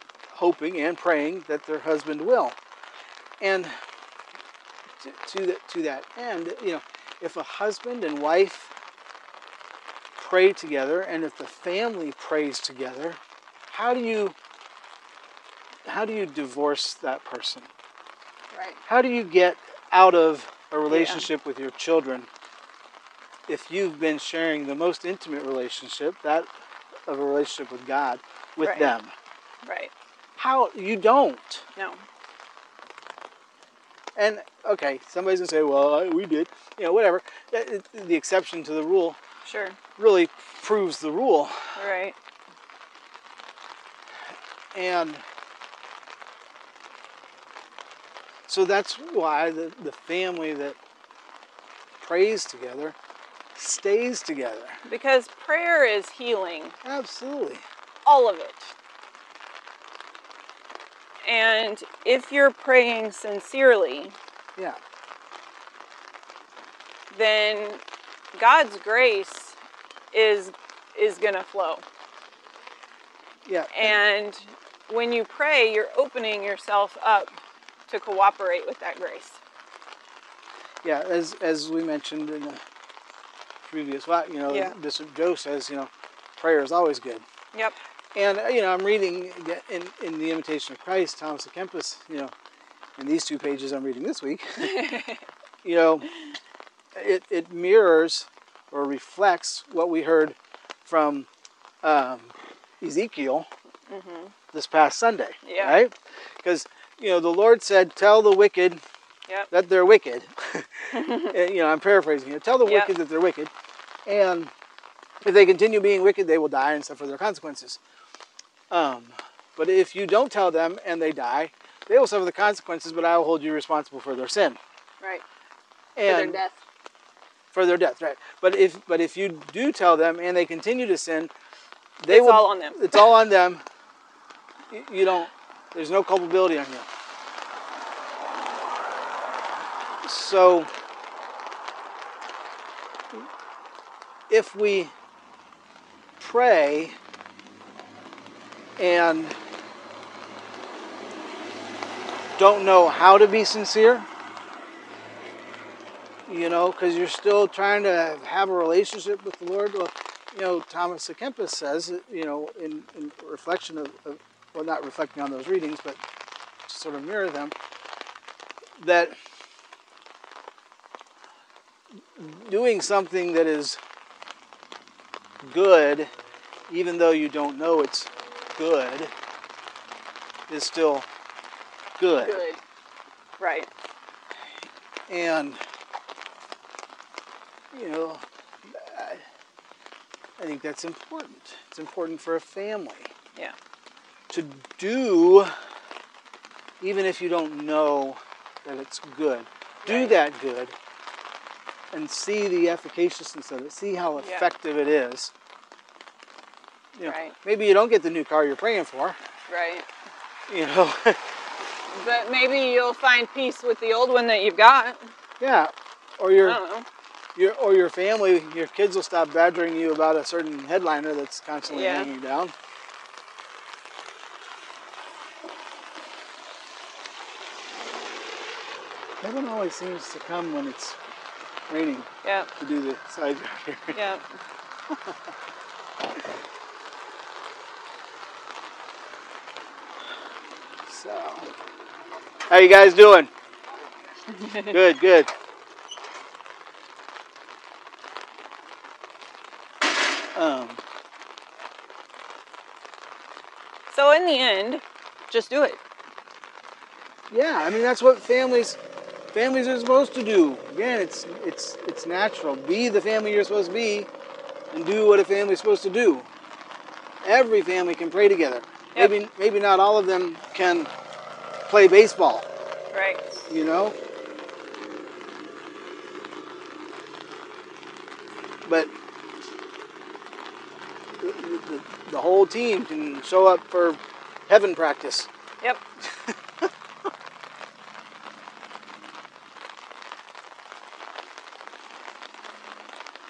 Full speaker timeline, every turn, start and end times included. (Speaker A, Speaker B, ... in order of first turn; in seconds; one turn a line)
Speaker A: 0.3-2.6
Speaker A: 3.4-3.7
Speaker A: 5.0-8.7
Speaker A: 10.2-13.2
Speaker A: 13.7-14.3
Speaker A: 15.8-17.7
Speaker B: 18.5-18.8
Speaker A: 18.9-22.3
Speaker B: 20.9-21.2
Speaker A: 23.5-26.5
Speaker A: 27.1-29.1
Speaker B: 28.6-28.9
Speaker B: 29.6-29.9
Speaker A: 30.4-31.6
Speaker B: 31.8-32.0
Speaker A: 34.1-39.2
Speaker B: 39.4-39.8
Speaker A: 40.0-41.7
Speaker B: 41.8-42.1
Speaker A: 44.7-45.2
Speaker A: 48.5-50.8
Speaker A: 52.0-53.0
Speaker A: 53.5-54.8
Speaker B: 54.8-56.7
Speaker A: 56.8-57.6
Speaker B: 58.0-58.7
Speaker B: 61.2-64.2
Speaker B: 67.1-67.8
Speaker B: 68.3-69.6
Speaker B: 70.1-71.8
Speaker A: 73.5-74.0
Speaker B: 73.7-77.3
Speaker B: 77.9-79.4
Speaker A: 80.8-82.6
Speaker A: 83.7-87.2
Speaker B: 84.5-84.7
Speaker A: 88.1-92.3
Speaker A: 93.0-94.9
Speaker B: 94.6-95.2
Speaker A: 95.6-96.1
Speaker A: 96.9-101.3
Speaker A: 101.8-103.5
Speaker B: 103.9-104.3
Speaker A: 104.5-108.8
Speaker B: 105.4-105.8
Speaker A: 109.5-113.5
Speaker B: 110.9-111.3
Speaker B: 112.6-112.9
Speaker A: 114.0-114.5
Speaker A: 115.2-117.8
Speaker A: 118.7-124.6
Speaker A: 126.0-126.4
Speaker B: 126.0-126.6
Speaker A: 127.5-131.3
Speaker A: 132.0-133.6
Speaker B: 132.1-133.1
Speaker A: 134.7-136.9
Speaker A: 140.0-140.7
Speaker A: 144.3-144.9
Speaker A: 146.2-146.9
Speaker A: 148.8-149.4
Speaker A: 152.4-154.1
Speaker A: 156.3-166.0
Speaker A: 166.7-167.5
Speaker A: 168.8-169.1
Speaker A: 172.1-173.8
Speaker A: 175.4-176.1
Speaker A: 176.7-179.1
Speaker A: 180.5-181.1
Speaker A: 182.0-182.5
Speaker B: 182.2-182.6
Speaker B: 183.4-183.7
Speaker A: 185.1-185.6
Speaker A: 187.7-189.2
Speaker A: 190.4-193.1
Speaker A: 194.3-195.5
Speaker A: 196.8-200.7
Speaker B: 199.8-200.2
Speaker A: 201.9-205.3
Speaker B: 204.2-204.5
Speaker A: 206.9-209.2
Speaker B: 207.0-207.3
Speaker B: 209.5-209.8
Speaker A: 210.5-211.2
Speaker B: 211.8-215.0
Speaker A: 215.4-216.6
Speaker B: 216.4-216.8
Speaker A: 217.3-222.5
Speaker B: 221.7-222.1
Speaker A: 229.2-231.0
Speaker A: 231.7-234.0
Speaker B: 232.2-232.5
Speaker B: 233.9-234.2
Speaker A: 234.9-235.2
Speaker A: 240.9-241.5
Speaker A: 242.5-243.3
Speaker B: 244.3-244.8
Speaker A: 244.4-245.3
Speaker A: 250.3-250.8
Speaker B: 253.9-255.8
Speaker A: 257.3-258.8
Speaker A: 259.3-264.1
Speaker A: 264.7-266.3
Speaker A: 267.2-270.9
Speaker A: 271.7-272.5
Speaker B: 272.9-273.2
Speaker A: 273.5-273.9
Speaker A: 278.6-278.9
Speaker A: 281.2-285.3